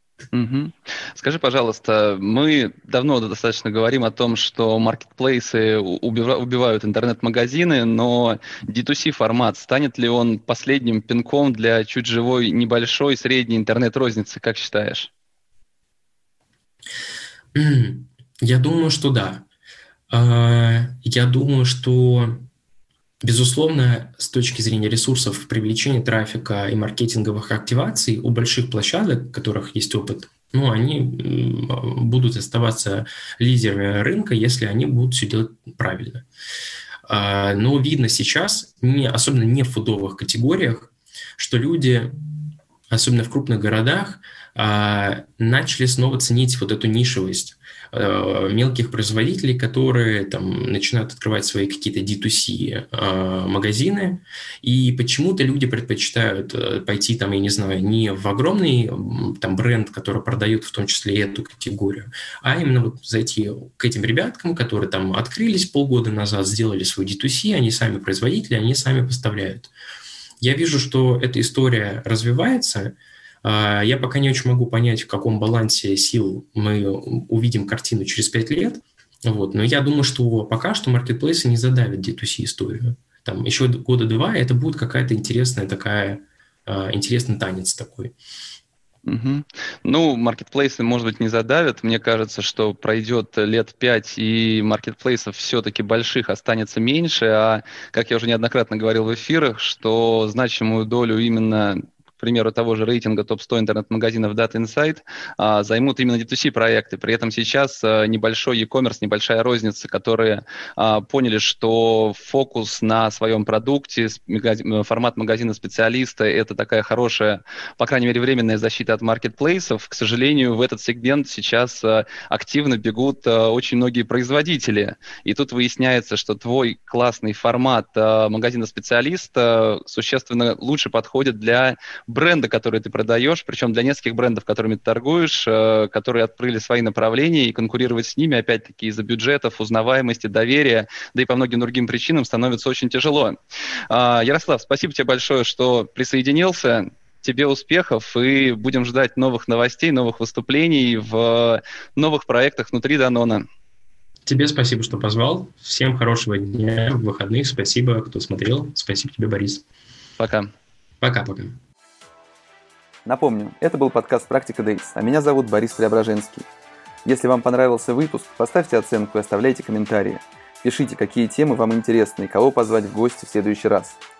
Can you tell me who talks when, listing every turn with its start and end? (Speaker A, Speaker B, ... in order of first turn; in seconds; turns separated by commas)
Speaker A: 0.3-15.1, Speaker B: 17.5-19.4, Speaker B: 20.1-22.4, Speaker B: 23.2-36.2, Speaker B: 37.1-42.2, Speaker B: 42.9-69.7, Speaker B: 70.4-88.2, Speaker A: 89.0-143.4, Speaker A: 143.9-153.4, Speaker B: 154.2-159.7, Speaker A: 160.2-160.5, Speaker B: 161.0-161.6, Speaker C: 163.1-166.4, Speaker C: 167.0-174.0